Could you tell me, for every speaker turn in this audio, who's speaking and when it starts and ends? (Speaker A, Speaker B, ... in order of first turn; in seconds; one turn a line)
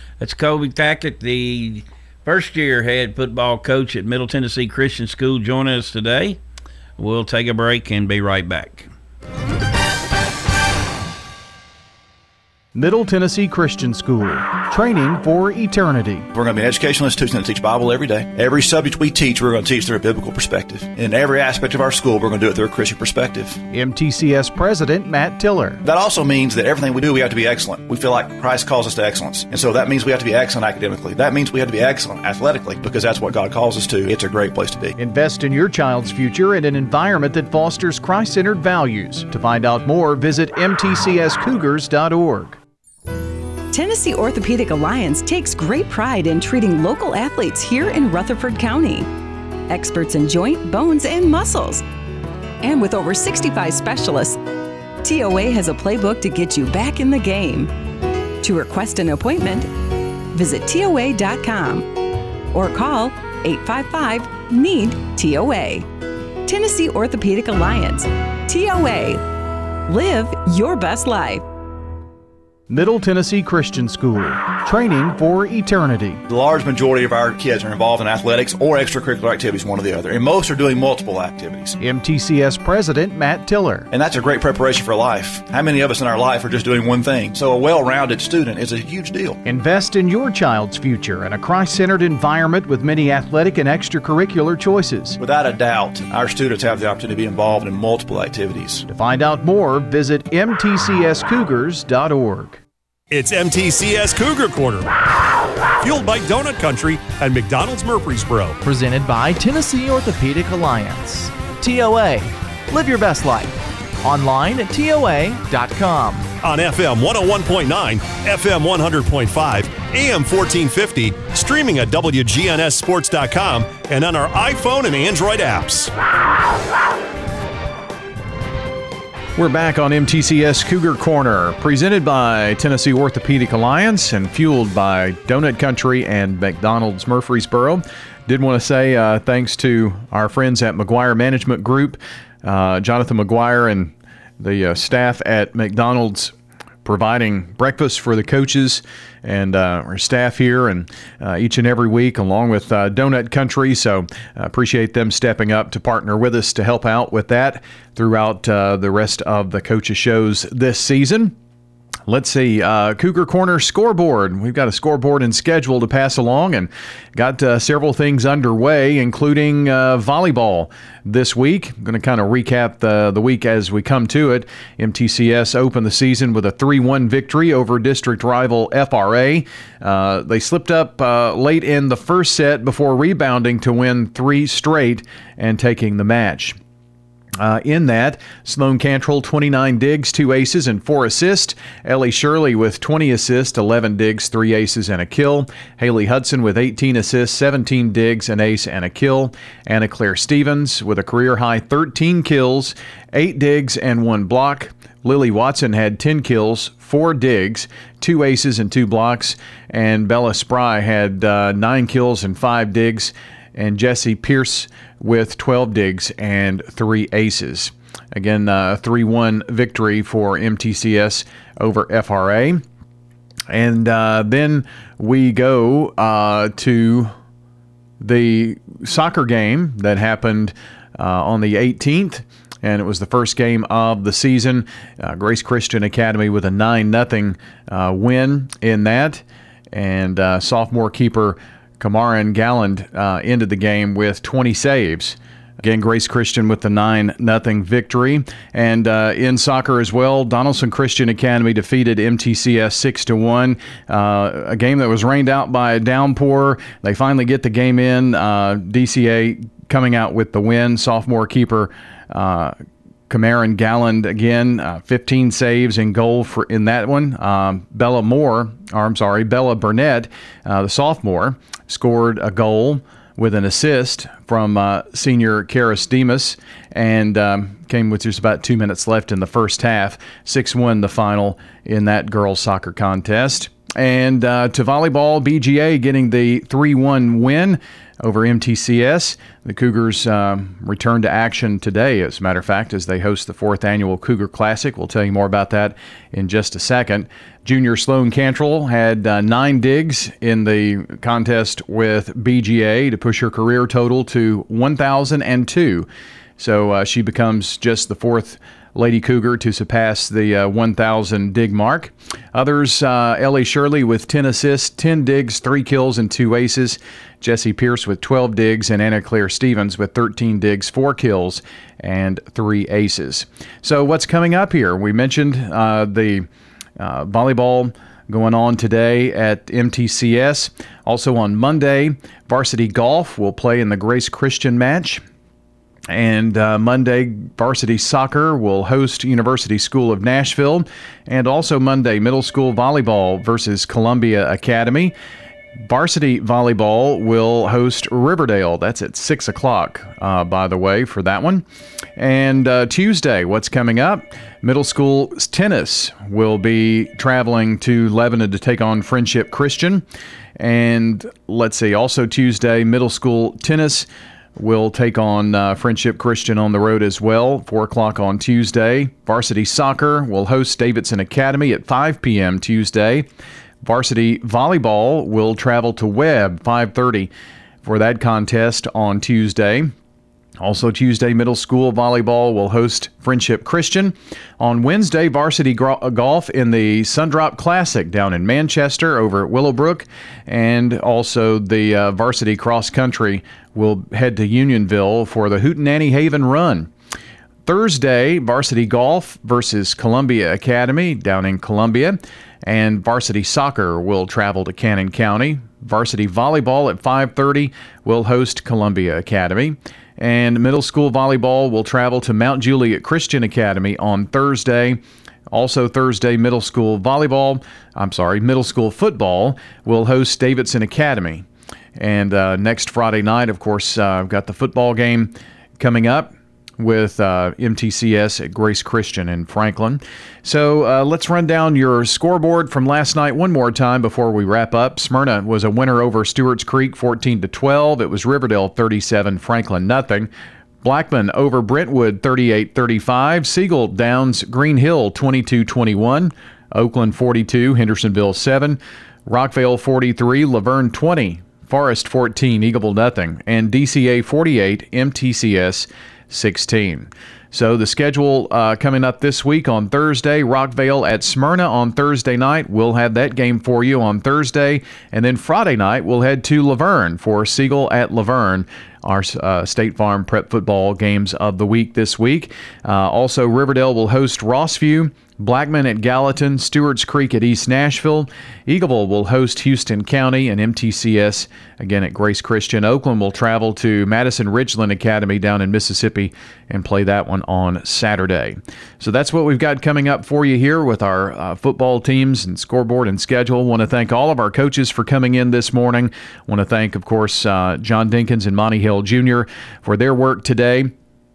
Speaker A: 0.2-6.4
Speaker A: 7.0-8.9
Speaker B: 12.8-16.3
Speaker C: 16.3-23.6
Speaker B: 23.7-25.8
Speaker C: 25.8-34.9
Speaker B: 35.0-42.6
Speaker D: 43.7-49.1
Speaker D: 49.7-51.8
Speaker D: 52.6-54.4
Speaker D: 55.0-57.7
Speaker D: 58.4-59.7
Speaker D: 60.3-61.9
Speaker D: 62.5-65.9
Speaker D: 66.5-69.2
Speaker D: 69.9-71.5
Speaker B: 72.7-76.2
Speaker C: 76.3-81.8
Speaker B: 81.8-83.9
Speaker C: 83.9-89.4
Speaker B: 89.4-95.2
Speaker C: 95.2-98.8
Speaker B: 98.9-102.6
Speaker E: 103.1-104.9
Speaker E: 105.8-108.6
Speaker F: 108.6-116.3
Speaker E: 116.4-125.9
Speaker B: 129.4-146.3
Speaker B: 146.8-161.3
Speaker B: 162.1-186.6
Speaker B: 187.4-222.6
Speaker B: 223.5-227.1
Speaker B: 228.0-262.6
Speaker B: 263.1-326.3
Speaker B: 326.8-335.0
Speaker B: 335.9-344.9
Speaker B: 345.6-351.4
Speaker B: 352.0-359.9
Speaker B: 360.4-373.1
Speaker B: 373.6-377.1
Speaker B: 377.6-379.7
Speaker B: 380.4-396.7
Speaker B: 397.5-414.8
Speaker B: 415.3-421.2
Speaker B: 421.8-440.1
Speaker B: 440.6-500.7